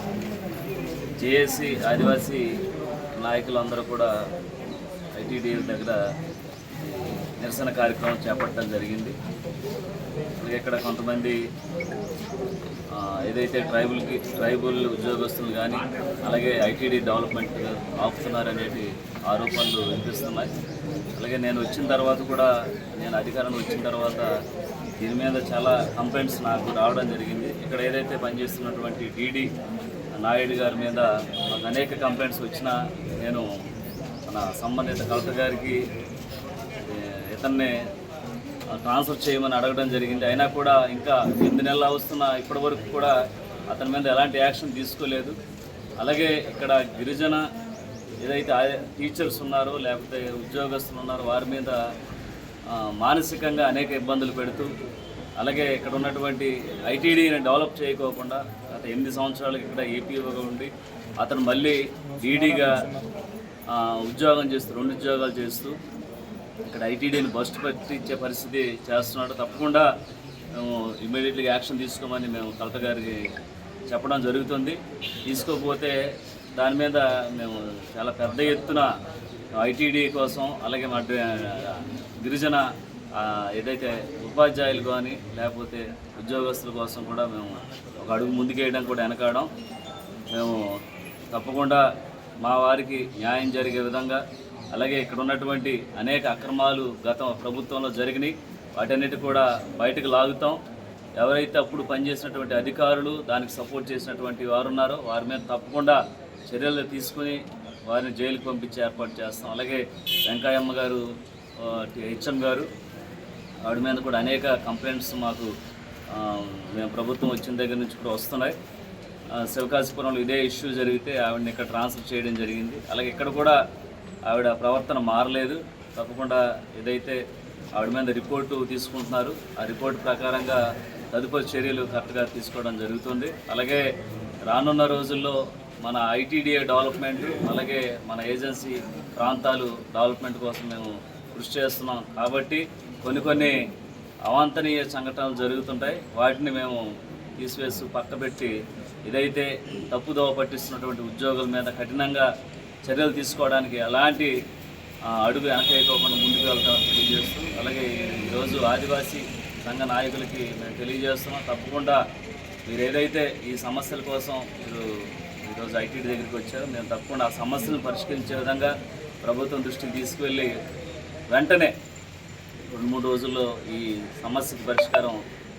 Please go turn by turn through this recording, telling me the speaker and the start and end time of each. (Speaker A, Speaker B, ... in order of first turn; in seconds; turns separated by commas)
Speaker A: 1.2-2.4, Speaker A: 3.2-4.1, Speaker A: 5.2-6.0, Speaker A: 6.8-9.2, Speaker A: 10.4-11.4, Speaker A: 12.9-20.5, Speaker A: 21.2-22.5, Speaker A: 23.0-24.3, Speaker A: 25.0-29.5, Speaker A: 30.2-33.5, Speaker A: 34.3-35.8, Speaker A: 36.8-37.8, Speaker A: 38.7-43.1, Speaker A: 43.7-45.4, Speaker A: 46.0-47.4, Speaker A: 48.2-51.8, Speaker A: 52.7-54.7, Speaker A: 55.4-62.9, Speaker A: 63.7-65.8, Speaker A: 66.7-69.8, Speaker A: 70.5-73.2, Speaker A: 73.9-76.0, Speaker A: 76.5-78.9, Speaker A: 79.5-89.5, Speaker A: 90.3-90.7, Speaker A: 91.3-91.8, Speaker A: 92.4-94.2, Speaker A: 94.7-100.6, Speaker A: 101.2-111.0, Speaker A: 111.6-112.7, Speaker A: 113.7-115.5, Speaker A: 116.1-118.5, Speaker A: 119.3-123.6, Speaker A: 124.3-127.2, Speaker A: 127.8-130.6, Speaker A: 131.1-133.9, Speaker A: 134.5-143.6, Speaker A: 144.3-146.8, Speaker A: 147.4-148.5, Speaker A: 149.1-152.3, Speaker A: 152.8-154.3, Speaker A: 155.1-162.0, Speaker A: 162.7-164.9, Speaker A: 165.5-170.5, Speaker A: 171.3-171.7, Speaker A: 172.7-175.2